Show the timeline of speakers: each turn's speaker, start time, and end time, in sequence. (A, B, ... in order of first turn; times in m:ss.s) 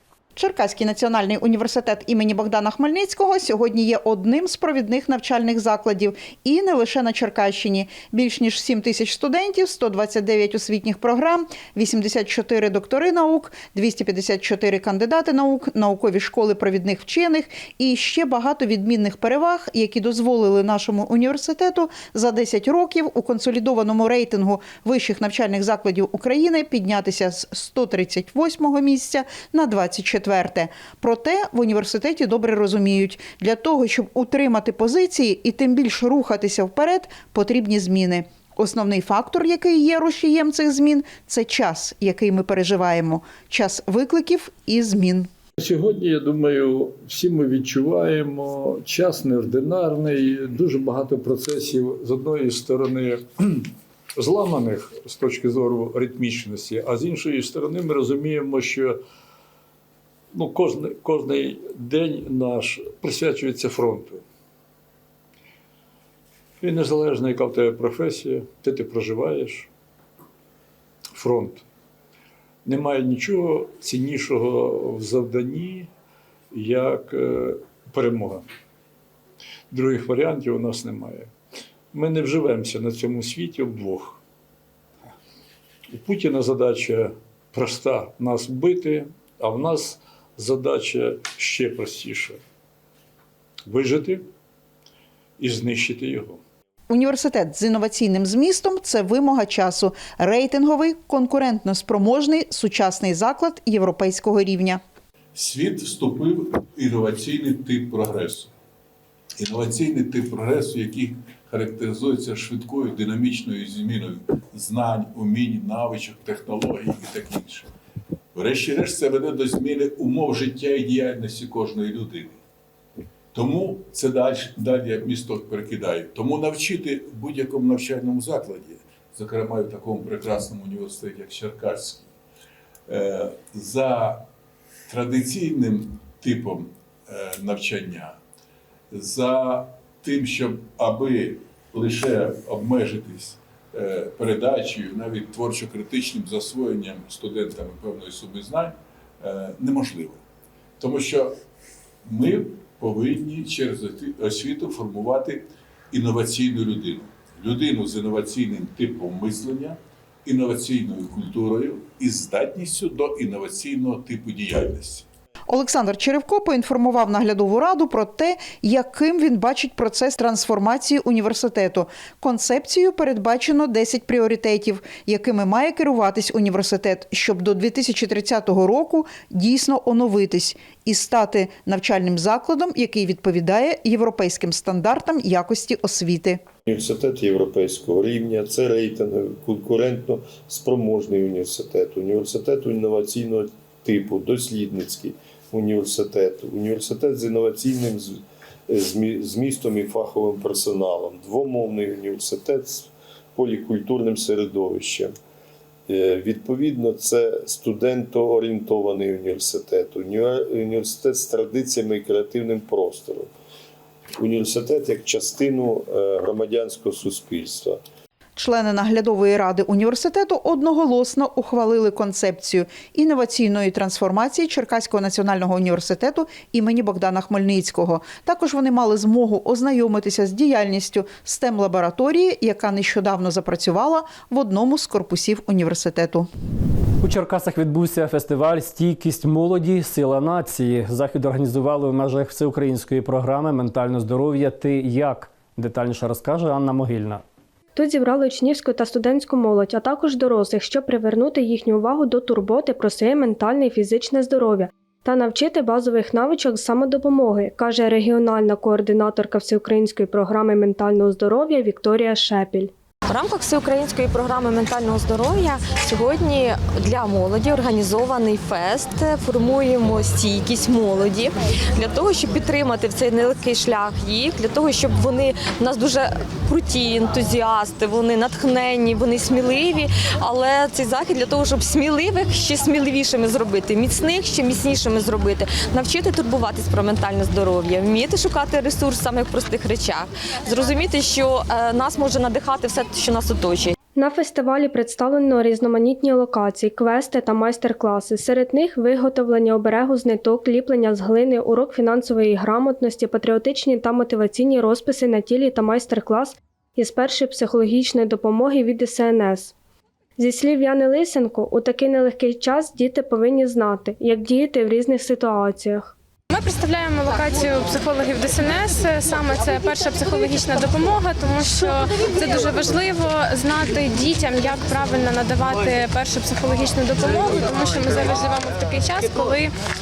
0:00.4-0:45.3 A
0:45.6-0:59.0 B
1:00.3-1:04.2 B
1:06.6-1:09.7 B
1:11.1-1:11.6 B
1:12.6-1:15.9 B
1:16.5-1:18.4 B
1:19.7-1:21.3 B
1:21.9-1:24.2 B
1:25.9-1:32.4 B
1:33.6-1:34.2 B
1:35.4-1:36.4 B
1:36.9-1:44.8 A
1:45.3-1:48.5 C
1:49.4-1:57.7 C
1:58.3-2:02.4 C
2:03.3-2:12.1 C
2:12.9-2:14.2 C
2:14.9-2:18.2 C
2:18.9-2:30.2 C
2:30.8-2:31.4 C
2:32.0-2:45.0 C
2:45.5-3:06.4 A
3:06.6-3:25.1 D
3:25.9-3:33.3 D
3:34.2-3:37.8 D
3:38.4-3:56.3 A
3:57.0-4:07.2 E
4:07.7-4:22.7 F
4:23.1-4:53.7 G
4:54.0-5:09.5 F
5:10.2-5:15.9 F
5:16.3-5:29.5 H